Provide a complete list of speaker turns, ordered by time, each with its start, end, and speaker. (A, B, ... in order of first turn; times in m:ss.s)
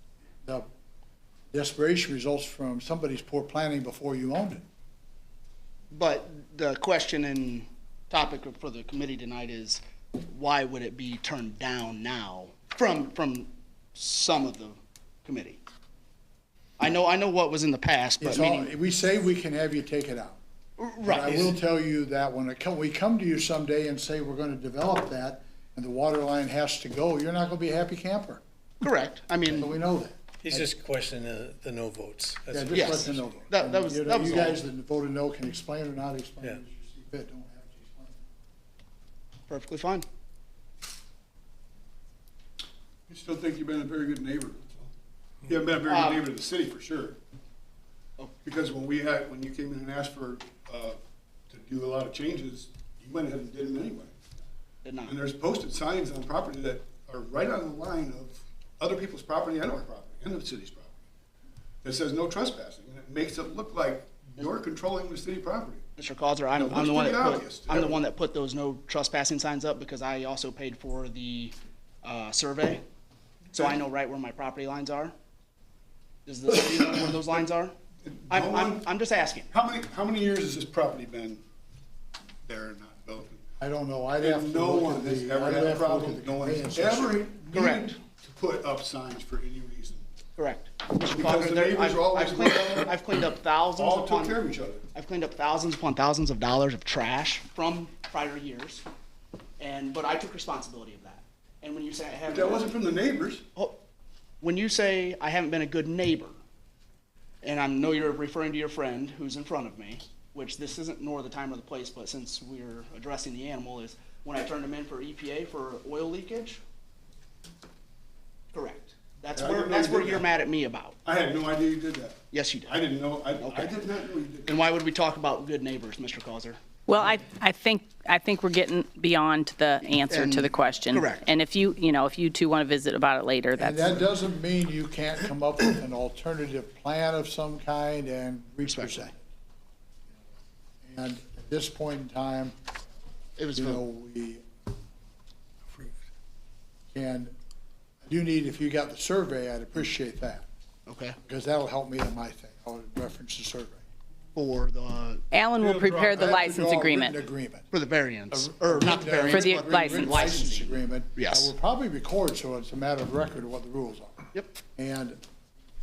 0:01.5-0:04.6 A
0:05.9-0:15.6 B
0:16.8-0:18.7 B
0:18.2-0:20.4 A
0:20.8-0:21.6 B
0:21.0-0:28.4 A
0:28.8-0:29.7 B
0:29.5-0:30.7 A
0:30.4-0:33.1 C
0:32.5-0:38.2 A
0:32.7-0:34.6 B
0:39.5-0:40.1 B
0:43.1-0:44.9 D
0:45.4-0:47.2 D
0:45.9-0:46.3 B
0:48.4-0:51.0 D
0:51.5-0:54.1 D
0:54.8-0:55.2 B
0:55.1-1:00.9 D
1:01.8-1:05.9 D
1:06.0-1:12.8 B
1:06.5-1:08.0 D
1:13.5-1:15.1 B
1:16.3-1:17.8 B
1:18.1-1:18.8 D
1:18.3-1:19.5 B
1:19.5-1:21.4 D
1:22.5-1:23.4 D
1:23.6-1:27.2 A
1:24.2-1:30.0 D
1:27.5-1:28.0 B
1:30.4-1:38.8 B
1:31.1-1:33.0 D
1:33.8-1:34.9 D
1:39.6-1:42.8 B
1:42.3-1:43.4 D
1:43.5-1:43.8 B
1:44.4-1:46.4 B
1:47.4-1:56.6 B
1:58.5-2:01.0 B
1:59.3-2:00.3 D
2:01.0-2:04.6 D
2:02.3-2:02.8 B
2:03.4-2:03.8 B
2:04.5-2:06.6 B
2:06.9-2:14.0 E
2:10.1-2:11.3 B
2:13.6-2:19.2 A
2:18.6-2:19.1 B
2:20.8-2:22.5 A
2:23.4-2:23.8 B
2:23.6-2:24.4 A
2:26.9-2:27.3 A
2:28.0-2:30.5 A
2:30.9-2:31.2 B
2:31.3-2:33.8 A
2:34.4-2:35.2 B
2:35.3-2:37.2 E
2:35.6-2:37.7 A
2:37.7-2:41.5 B
2:38.3-2:45.2 A
2:39.3-2:40.1 E